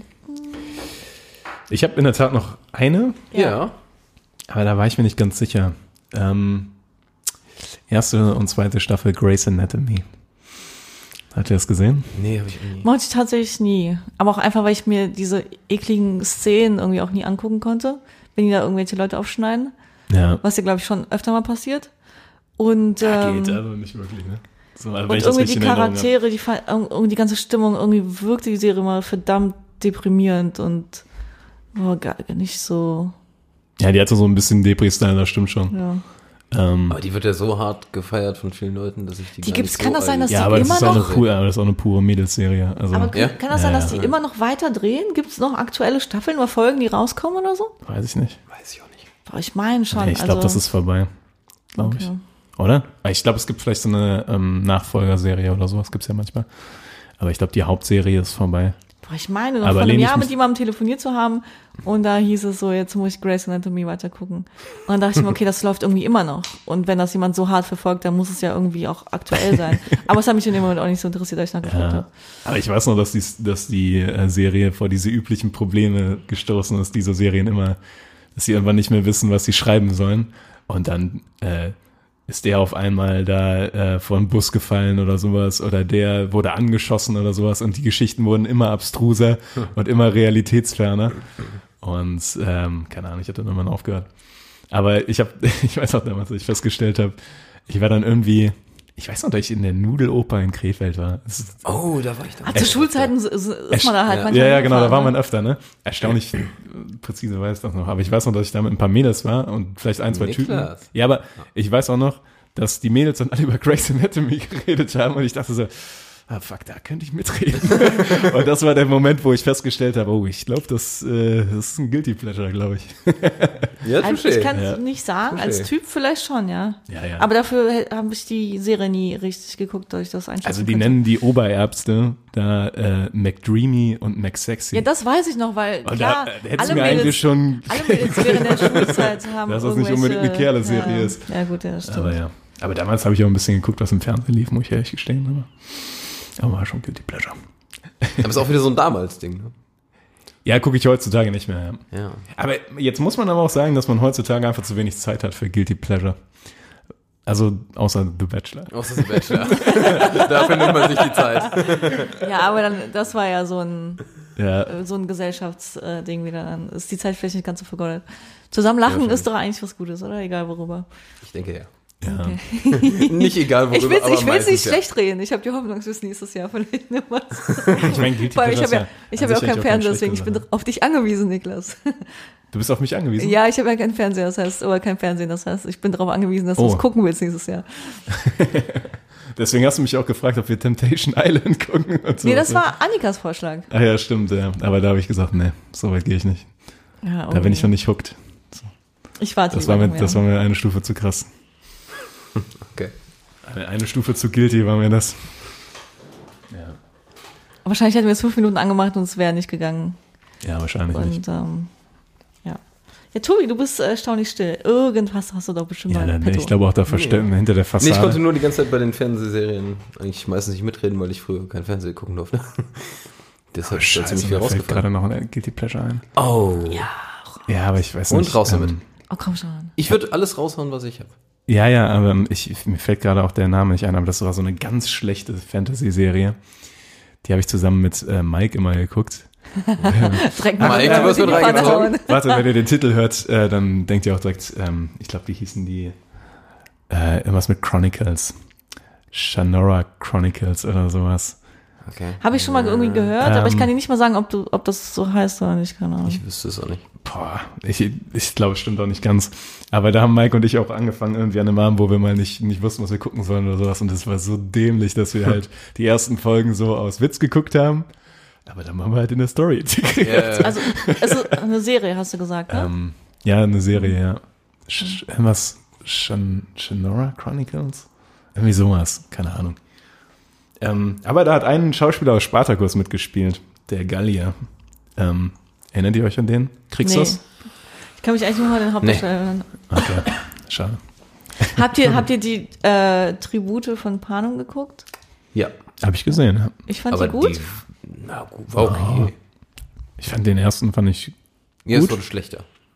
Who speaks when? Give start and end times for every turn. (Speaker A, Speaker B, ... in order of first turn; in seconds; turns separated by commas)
Speaker A: 1.7-3.3, Speaker B: 3.3-3.6, Speaker C: 3.3-3.7, Speaker A: 4.5-6.7, Speaker A: 7.9-10.1, Speaker A: 11.3-12.2, Speaker C: 12.1-12.9, Speaker B: 12.8-19.7, Speaker A: 20.1-20.4, Speaker B: 20.4-21.9, Speaker B: 22.6-23.6, Speaker A: 23.0-26.1, Speaker B: 25.1-31.0, Speaker B: 31.7-33.1, Speaker A: 33.8-35.8, Speaker B: 35.7-36.0, Speaker A: 36.5-37.0, Speaker C: 36.9-41.3, Speaker B: 39.4-41.1, Speaker A: 40.3-44.0, Speaker B: 42.9-47.7, Speaker C: 43.1-44.2, Speaker A: 47.9-48.4, Speaker C: 48.5-49.0, Speaker B: 49.3-50.6, Speaker A: 49.9-51.1, Speaker A: 51.7-56.5, Speaker B: 51.8-52.2, Speaker A: 57.2-58.8, Speaker B: 59.0-72.1, Speaker A: 59.6-60.3, Speaker A: 71.6-77.8, Speaker A: 78.3-81.8, Speaker A: 82.3-91.3, Speaker A: 91.8-94.1, Speaker A: 94.7-97.2, Speaker A: 97.7-101.8, Speaker C: 101.6-103.1, Speaker B: 102.4-105.2, Speaker A: 103.7-123.8, Speaker C: 104.1-104.4, Speaker C: 110.1-110.9, Speaker C: 123.8-124.5, Speaker B: 124.0-131.0, Speaker A: 124.5-124.8, Speaker C: 125.3-125.7, Speaker A: 126.9-127.3, Speaker A: 130.4-134.8, Speaker B: 134.7-142.2, Speaker A: 135.8-141.3, Speaker A: 141.8-147.4, Speaker C: 148.2-149.5, Speaker A: 150.4-156.2, Speaker C: 151.9-152.2, Speaker A: 157.2-160.2, Speaker C: 158.7-162.1, Speaker B: 159.6-160.2, Speaker B: 161.5-164.0, Speaker A: 164.3-164.7, Speaker B: 164.7-170.8, Speaker C: 168.8-169.3, Speaker C: 171.2-171.7, Speaker A: 172.0-172.4, Speaker B: 172.0-182.1, Speaker C: 172.7-174.8, Speaker C: 177.6-177.9, Speaker A: 177.8-180.4, Speaker A: 182.5-183.4, Speaker B: 183.2-188.0, Speaker A: 186.6-186.8, Speaker A: 188.1-192.6, Speaker B: 192.2-193.7, Speaker A: 193.7-196.5, Speaker B: 197.0-197.7, Speaker A: 197.3-198.7, Speaker B: 199.2-200.2, Speaker A: 199.5-201.3, Speaker C: 202.3-202.9, Speaker A: 203.4-205.3, Speaker A: 206.5-206.8, Speaker B: 207.6-210.0, Speaker A: 210.4-211.2, Speaker B: 210.9-211.7, Speaker B: 213.1-216.5, Speaker A: 215.9-218.2, Speaker C: 216.9-217.3, Speaker C: 217.8-224.8, Speaker A: 223.6-226.1, Speaker C: 226.1-226.9, Speaker B: 226.7-227.2, Speaker A: 227.5-228.8, Speaker C: 228.1-228.8, Speaker B: 229.1-229.7, Speaker C: 229.8-231.1, Speaker A: 231.5-236.4, Speaker A: 237.2-239.3, Speaker B: 239.6-242.4, Speaker A: 239.9-245.9, Speaker C: 240.6-241.9, Speaker A: 246.9-248.3, Speaker A: 249.1-251.4, Speaker C: 251.8-253.1, Speaker B: 252.2-256.2, Speaker A: 253.2-253.7, Speaker C: 256.0-256.8, Speaker A: 257.0-267.9, Speaker A: 268.4-271.2, Speaker C: 270.0-270.6, Speaker B: 270.4-272.7, Speaker A: 272.5-279.6, Speaker A: 280.6-284.4, Speaker A: 285.0-287.2, Speaker B: 286.8-287.2, Speaker B: 288.0-289.9, Speaker A: 289.7-290.8, Speaker B: 291.5-294.8, Speaker A: 295.8-296.6, Speaker B: 296.7-297.5, Speaker C: 296.9-299.1, Speaker A: 298.6-299.1, Speaker A: 300.0-301.1, Speaker C: 301.6-302.4, Speaker A: 301.7-302.0